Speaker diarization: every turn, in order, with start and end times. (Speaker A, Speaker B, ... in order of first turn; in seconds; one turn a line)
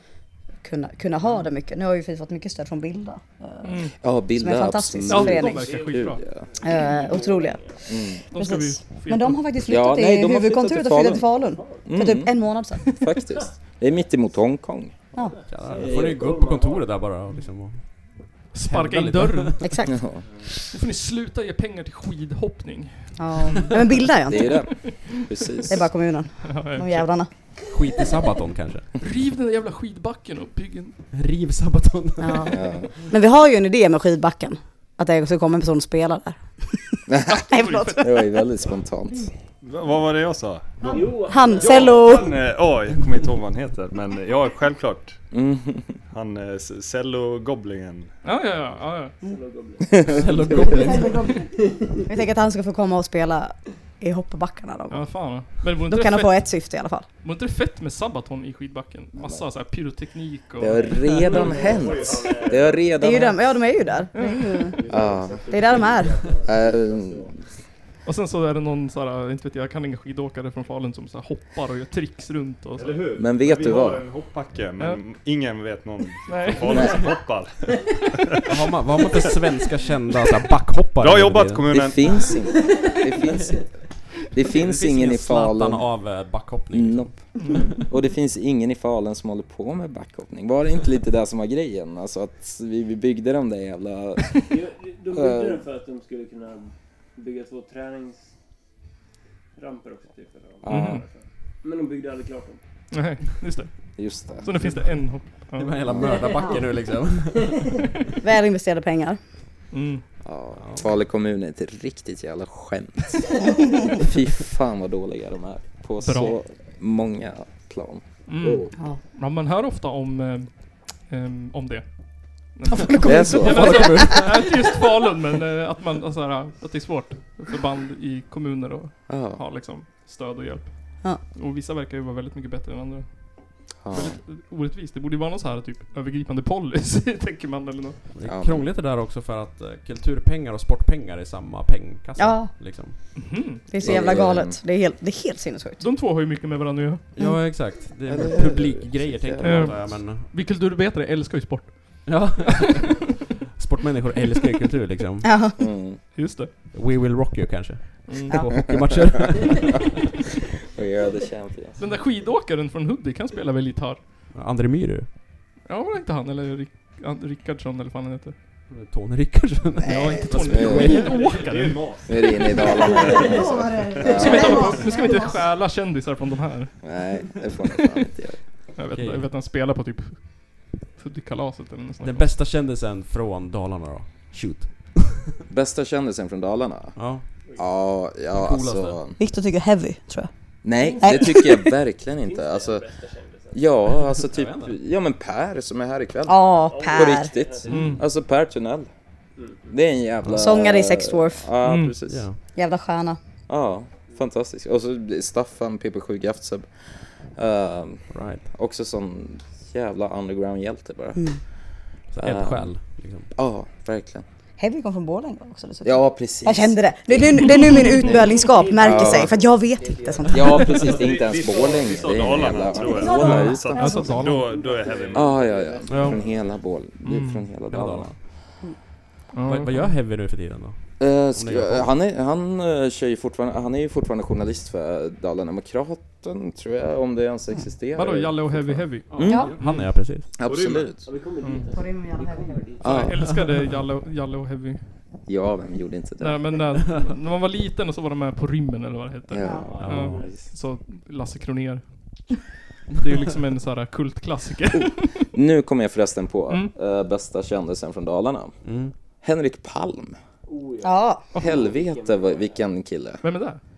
Speaker A: 0.6-5.6
Speaker B: 3.6-3.9
Speaker C: 4.0-6.4
Speaker B: 5.1-6.2
Speaker D: 5.4-7.9
Speaker A: 6.6-7.6
Speaker C: 7.9-8.2
Speaker B: 8.3-9.4
Speaker A: 8.3-12.8
Speaker C: 9.7-11.3
Speaker D: 11.5-11.9
Speaker C: 11.8-14.9
Speaker D: 15.2-17.0
Speaker E: 15.5-19.6
Speaker B: 18.5-19.6
Speaker A: 19.6-20.0
Speaker C: 19.9-20.2
Speaker B: 20.7-23.8
Speaker A: 23.2-24.6
Speaker C: 24.3-25.9
Speaker B: 24.4-24.7
Speaker A: 25.7-27.3
Speaker B: 26.4-27.1
Speaker E: 27.7-28.9
Speaker B: 29.0-31.0
Speaker E: 31.1-32.6
Speaker A: 32.2-38.0
Speaker C: 32.5-32.9
Speaker C: 37.1-37.4
Speaker B: 37.3-38.1
Speaker C: 38.0-39.3
Speaker F: 39.6-45.2
Speaker D: 40.8-42.4
Speaker A: 40.8-42.3
Speaker C: 45.3-46.0
Speaker F: 46.1-48.1
Speaker B: 48.2-49.1
Speaker D: 49.2-52.0
Speaker E: 50.0-51.4
Speaker A: 50.9-51.3
Speaker A: 52.0-57.0
Speaker B: 54.9-56.5
Speaker B: 57.2-61.3
Speaker C: 59.2-59.4
Speaker C: 60.6-63.6
Speaker D: 60.8-62.9
Speaker F: 61.3-62.7
Speaker A: 63.0-64.8
Speaker B: 64.1-64.7
Speaker F: 64.8-66.4
Speaker C: 64.9-65.5
Speaker D: 64.9-66.9
Speaker A: 65.5-66.2
Speaker C: 66.4-67.3
Speaker B: 68.0-73.0
Speaker F: 72.8-78.6
Speaker C: 73.2-74.0
Speaker B: 76.3-77.1
Speaker E: 78.5-81.8
Speaker F: 81.0-82.3
Speaker C: 81.7-83.7
Speaker D: 82.5-82.9
Speaker C: 84.3-85.9
Speaker E: 84.4-87.8
Speaker C: 86.7-87.2
Speaker B: 87.4-87.7
Speaker C: 87.8-94.5
Speaker D: 94.5-98.3
Speaker C: 95.1-95.6
Speaker D: 99.5-102.6
Speaker C: 100.6-101.0
Speaker B: 100.7-101.0
Speaker B: 102.9-105.8
Speaker C: 104.0-104.6
Speaker E: 105.6-107.9
Speaker C: 105.9-106.2
Speaker A: 108.2-109.2
Speaker B: 109.7-110.0
Speaker C: 110.2-118.7
Speaker E: 110.6-110.9
Speaker B: 116.0-116.4
Speaker B: 118.3-138.0
Speaker E: 123.0-124.5
Speaker C: 123.0-124.1
Speaker C: 129.1-129.4
Speaker C: 133.8-134.2
Speaker E: 138.1-143.0
Speaker C: 138.2-138.7
Speaker A: 142.2-142.5
Speaker A: 143.0-145.8
Speaker B: 143.2-143.6
Speaker C: 143.8-144.6
Speaker B: 145.8-147.0
Speaker E: 147.1-150.3
Speaker C: 148.1-149.9
Speaker B: 149.4-152.7
Speaker E: 152.1-155.3
Speaker A: 155.2-155.6
Speaker C: 155.6-156.0
Speaker B: 156.1-156.5
Speaker E: 156.7-159.9
Speaker B: 158.1-158.4
Speaker C: 160.7-161.8
Speaker B: 161.8-164.0
Speaker E: 164.3-165.1
Speaker B: 165.6-168.3
Speaker E: 168.7-171.1
Speaker B: 169.8-172.1
Speaker C: 170.0-171.0
Speaker F: 170.8-174.1
Speaker C: 172.1-174.8
Speaker A: 173.1-175.4
Speaker B: 174.1-176.8
Speaker C: 176.8-178.4
Speaker B: 178.8-182.3
Speaker E: 178.9-179.2
Speaker E: 182.0-185.3
Speaker C: 185.5-186.9
Speaker E: 186.9-187.2
Speaker C: 187.6-189.2
Speaker E: 188.3-189.0
Speaker A: 189.2-190.3
Speaker C: 190.6-192.8
Speaker D: 190.8-191.6
Speaker A: 191.0-191.7
Speaker D: 192.2-193.7
Speaker C: 193.5-198.9
Speaker E: 194.2-194.8
Speaker A: 196.3-197.3
Speaker D: 196.6-198.0
Speaker E: 197.7-198.0
Speaker B: 197.7-198.0
Speaker D: 199.3-199.7
Speaker C: 199.7-202.2
Speaker E: 200.2-200.5
Speaker A: 200.3-201.5
Speaker B: 201.6-202.0
Speaker E: 202.1-202.4
Speaker A: 202.5-203.2
Speaker C: 203.5-206.7
Speaker C: 207.3-211.2
Speaker E: 208.1-208.4
Speaker E: 212.1-213.3
Speaker C: 212.2-212.7
Speaker C: 213.3-214.2
Speaker A: 214.6-220.8
Speaker C: 215.8-219.4
Speaker D: 217.9-223.0
Speaker C: 220.3-223.7
Speaker F: 220.8-225.5
Speaker A: 222.9-224.1
Speaker B: 223.2-224.6
Speaker D: 223.9-226.6
Speaker C: 225.1-228.2
Speaker E: 225.9-226.2
Speaker B: 227.0-227.5
Speaker E: 227.7-228.1
Speaker B: 229.3-229.9
Speaker E: 229.4-231.9
Speaker C: 231.0-239.5
Speaker B: 237.9-239.9
Speaker E: 239.1-240.3
Speaker A: 239.2-239.5
Speaker C: 240.4-241.0
Speaker F: 240.4-240.9
Speaker D: 241.0-243.1
Speaker A: 241.7-242.7
Speaker C: 242.8-243.4
Speaker B: 242.8-244.8
Speaker C: 245.3-246.6
Speaker B: 246.2-251.8
Speaker C: 249.3-250.3
Speaker A: 249.4-249.7
Speaker D: 249.4-250.5
Speaker E: 249.8-250.2
Speaker B: 252.9-255.3
Speaker C: 254.7-258.5
Speaker E: 258.6-258.9
Speaker C: 259.2-260.2
Speaker D: 260.4-262.6
Speaker A: 260.8-261.2
Speaker C: 261.4-263.2
Speaker B: 263.2-263.6